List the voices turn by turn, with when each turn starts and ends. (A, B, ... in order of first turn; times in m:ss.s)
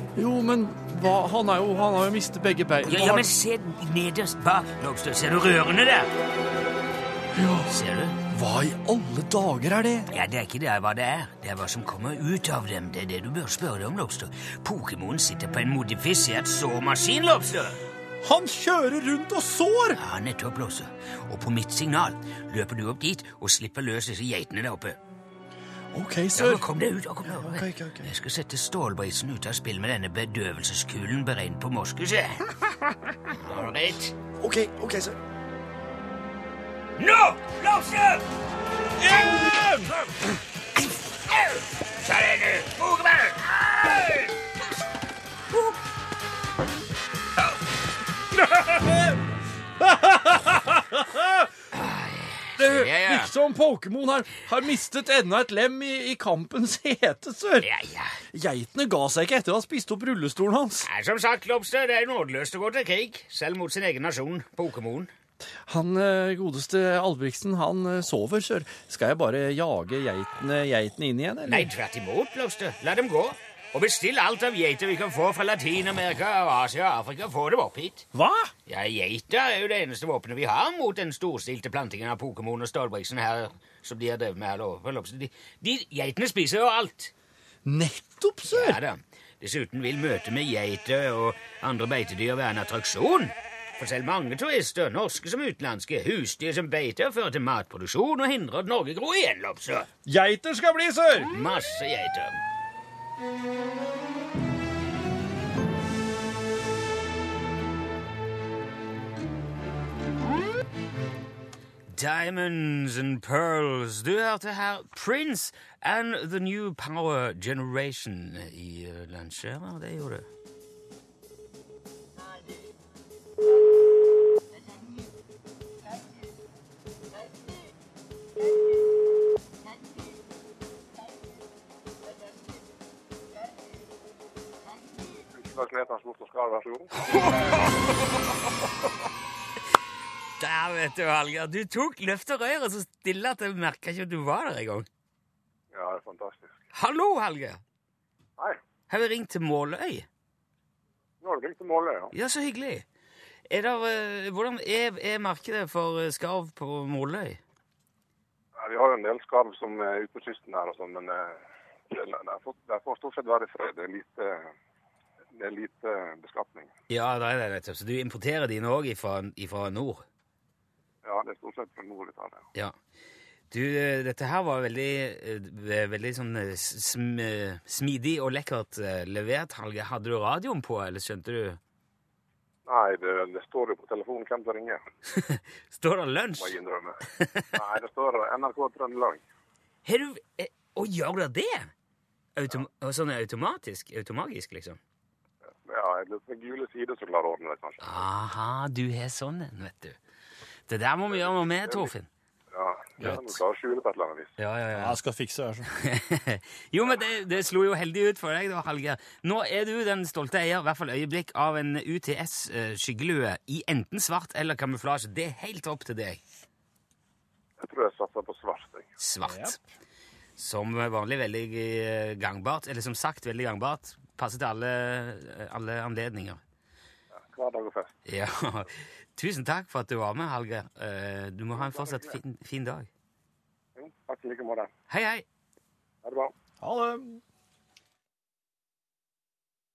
0:00.2-0:03.3 A
0:02.8-0:06.1 B
0:07.3-0:07.8 A
0:07.7-0:08.2 B
0:08.3-0:10.1 A
0:10.1-0:17.8 B
0:18.2-0:20.0 A
0:20.0-0:25.0 B
0:25.9-0:26.7 A
0:26.4-0:32.5 B
0:27.2-0:28.1 A
0:33.3-0:34.1 B
0:34.4-0:35.2 A
0:37.0-0:38.2 B
0:39.0-0:40.0 A
0:41.3-0:44.3 B
0:48.4-0:49.2 A
0:49.8-0:51.5 A
0:51.7-0:53.3 B
0:52.6-0:57.7 A
0:57.6-0:58.2 B
0:58.3-1:00.9 A
1:00.8-1:05.1 B
1:05.7-1:11.7 A
1:11.5-1:18.1 B
1:18.1-1:18.5 A
1:18.7-1:27.1 B
1:27.6-1:28.8 A
1:28.5-1:39.9 B
1:40.0-1:41.3 A
1:41.3-1:42.4 B
1:51.9-2:00.3 B
2:15.3-2:16.9 C
2:17.0-2:18.2 B
2:20.4-2:24.9 B
2:25.7-2:26.5 C
2:26.7-2:27.6 B
2:28.9-2:30.1 B
2:31.2-2:32.1 C
2:32.1-2:32.8 B
2:33.5-2:37.4 B
2:38.6-2:41.4 C
2:41.9-2:44.5 C
2:45.4-2:46.7 C
2:46.9-2:50.0 B
2:51.0-2:52.4 C
2:53.5-3:01.6 B
3:02.7-3:04.8 C
3:05.1-3:06.6 B
3:06.4-3:07.0 C
3:07.2-3:07.5 B
3:07.5-3:09.2 C
3:09.8-3:11.7 B
3:12.4-3:14.8 B
3:15.5-3:18.1 C
3:17.8-3:20.0 B
3:20.7-3:22.1 B
3:21.1-3:21.9 C
3:22.5-3:24.3 C
3:23.0-3:23.3 B
3:24.4-3:25.0 B
3:24.8-3:25.7 A
3:25.7-3:36.2 B
3:37.6-3:38.9 C
3:39.0-3:39.6 B
3:39.2-3:39.6 A
3:40.4-3:46.4 B
3:47.2-3:47.9 C
3:48.1-3:52.9 B
3:51.6-3:52.2 C
3:53.8-3:54.7 C
3:54.9-3:55.2 B
3:56.0-3:56.3 C
3:56.6-3:57.2 A